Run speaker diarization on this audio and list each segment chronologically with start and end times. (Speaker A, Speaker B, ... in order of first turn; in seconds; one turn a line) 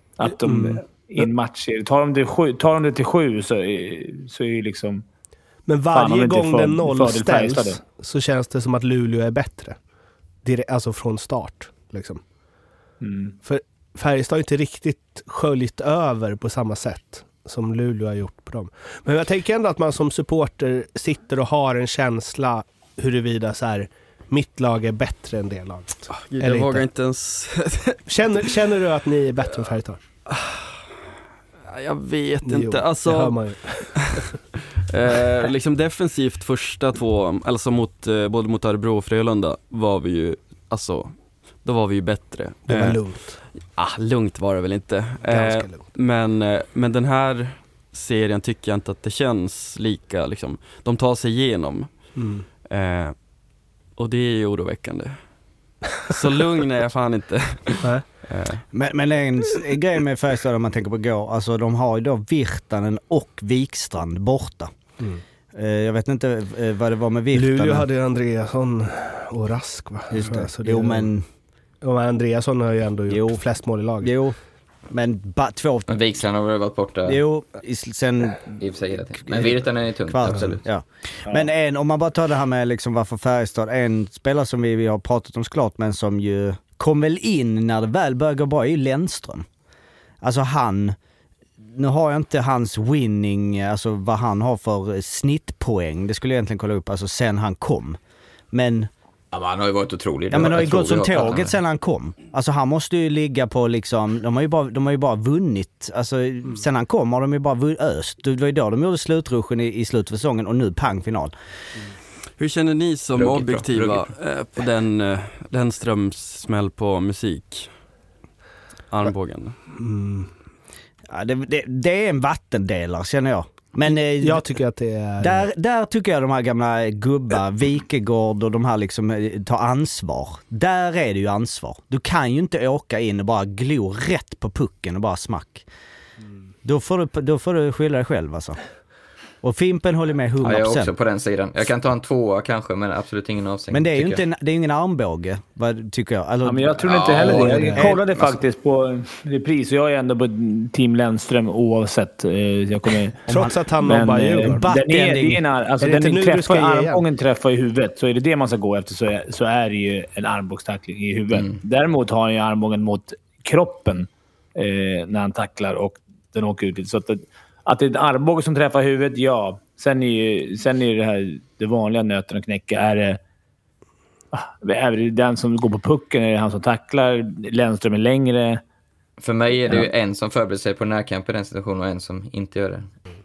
Speaker A: 0.2-5.0
Speaker B: 0.3-0.8
Speaker B: 5.7-9.8
Speaker A: 5.9-7.8
Speaker B: 10.4-12.2
Speaker A: 13.0-13.3
Speaker B: 13.4-26.8
Speaker C: 26.1-28.0
Speaker B: 28.1-30.0
Speaker C: 30.3-30.8
Speaker C: 31.7-33.4
Speaker B: 32.4-34.2
Speaker C: 34.0-34.3
Speaker C: 34.9-43.0
Speaker B: 42.7-43.4
Speaker C: 43.5-53.3
Speaker B: 45.2-45.8
Speaker B: 52.1-52.4
Speaker C: 54.0-55.2
Speaker C: 56.0-58.6
Speaker D: 58.7-64.7
Speaker D: 65.5-67.9
Speaker B: 67.3-71.1
Speaker D: 70.1-71.2
Speaker B: 71.8-74.1
Speaker D: 73.1-73.4
Speaker D: 74.0-74.4
Speaker D: 74.9-75.9
Speaker E: 75.9-77.2
Speaker D: 77.0-78.6
Speaker E: 78.6-80.6
Speaker D: 79.2-89.5
Speaker A: 81.2-81.5
Speaker D: 90.2-91.0
Speaker D: 91.7-98.0
Speaker D: 98.5-98.9
Speaker E: 99.3-101.6
Speaker D: 100.3-111.3
Speaker C: 112.4-117.7
Speaker E: 113.1-114.1
Speaker C: 118.9-119.6
Speaker B: 119.7-120.3
Speaker D: 121.1-124.4
Speaker B: 124.2-125.5
Speaker D: 125.2-135.7
Speaker D: 136.6-138.6
Speaker D: 139.4-140.9
Speaker E: 140.4-144.2
Speaker D: 143.7-148.3
Speaker A: 146.4-173.2
Speaker E: 146.8-147.6
Speaker B: 147.6-147.8
Speaker B: 153.3-154.7
Speaker D: 154.5-155.4
Speaker B: 155.8-157.0
Speaker E: 161.3-161.6
Speaker A: 174.3-178.6
Speaker E: 179.2-182.9